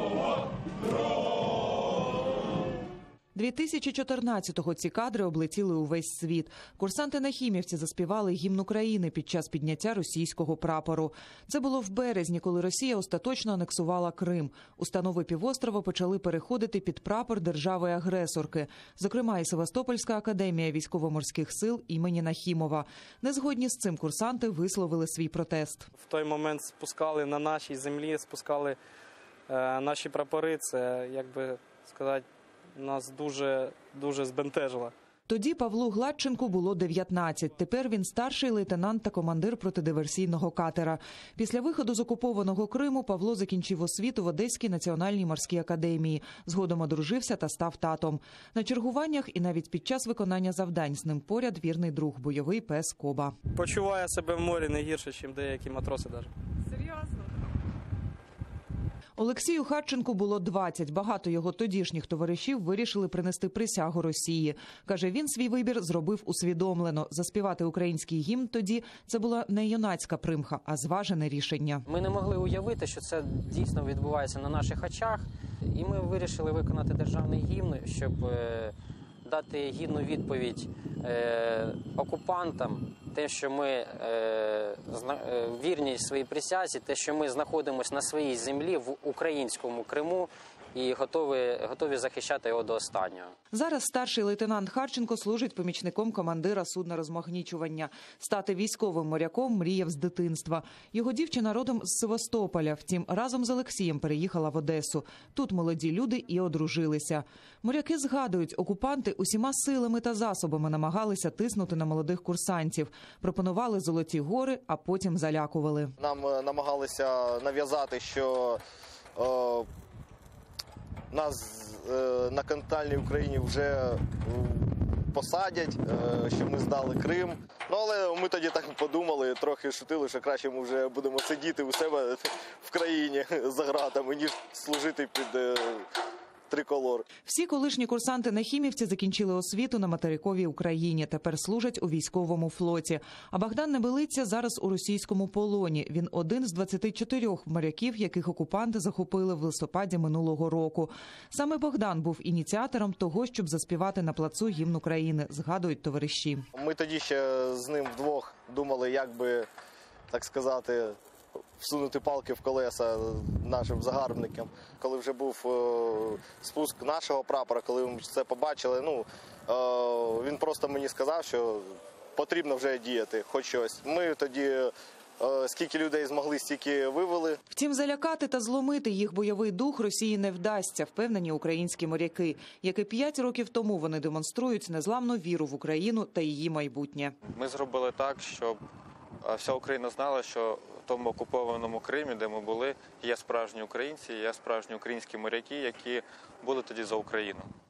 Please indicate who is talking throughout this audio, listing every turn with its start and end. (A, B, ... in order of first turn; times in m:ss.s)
0:03.4-0:25.9 A
0:26.0-0:28.8 B
0:29.5-0:34.9 B
0:35.3-0:53.3 A
0:53.6-0:56.3 B
0:59.2-1:11.9 A
1:11.9-1:18.7 C
1:19.2-1:33.3 C
1:33.5-1:55.9 A
1:56.0-1:58.6 D
1:59.2-1:59.7 D
2:01.1-2:15.9 D
2:16.5-2:17.1 D
2:17.2-2:36.5 A
2:36.5-2:39.5 D
2:40.1-2:41.0 D
2:41.6-2:57.4 D
2:57.5-3:07.2 A
3:07.3-3:08.6 E
3:09.2-3:17.5 E